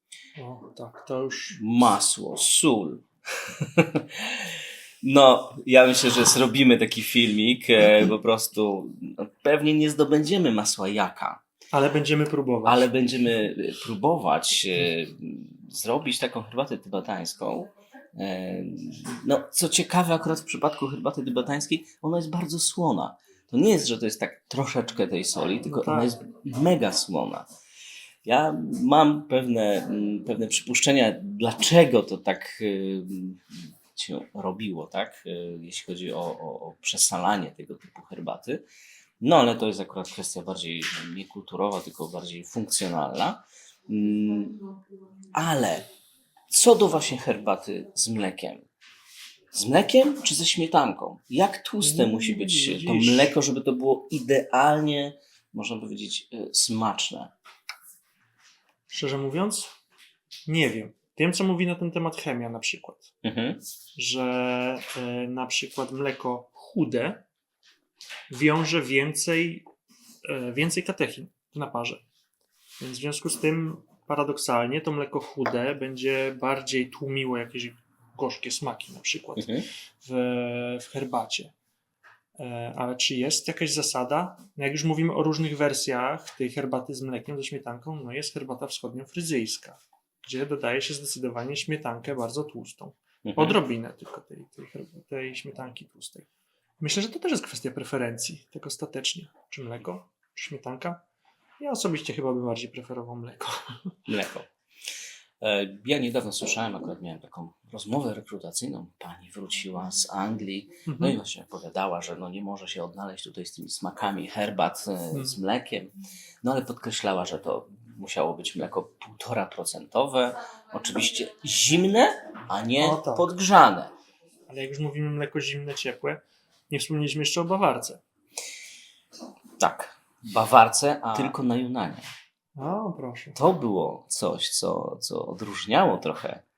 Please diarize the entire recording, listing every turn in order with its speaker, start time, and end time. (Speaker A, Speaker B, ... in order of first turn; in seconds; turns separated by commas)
Speaker A: 0.4-1.6, Speaker B: 1.6-11.4, Speaker A: 11.7-12.9, Speaker B: 12.7-27.5, Speaker A: 25.6-26.2, Speaker B: 28.2-38.6, Speaker B: 39.2-44.6, Speaker B: 45.3-45.9, Speaker B: 46.5-48.7, Speaker B: 49.5-57.3, Speaker A: 51.8-53.3, Speaker A: 58.9-59.7, Speaker A: 60.5-63.1, Speaker B: 63.2-63.6, Speaker A: 64.0-67.2, Speaker A: 68.3-69.7, Speaker A: 70.2-72.0, Speaker A: 72.8-81.5, Speaker B: 79.4-79.7, Speaker A: 82.4-96.3, Speaker B: 93.2-93.6, Speaker A: 96.8-101.0, Speaker A: 101.6-103.9, Speaker B: 104.1-104.5, Speaker B: 105.4-123.9, Speaker A: 110.9-111.2, Speaker A: 115.1-115.4, Speaker A: 122.8-123.3, Speaker A: 124.5-128.0, Speaker B: 129.6-132.1, Speaker A: 132.6-133.4, Speaker B: 133.3-136.4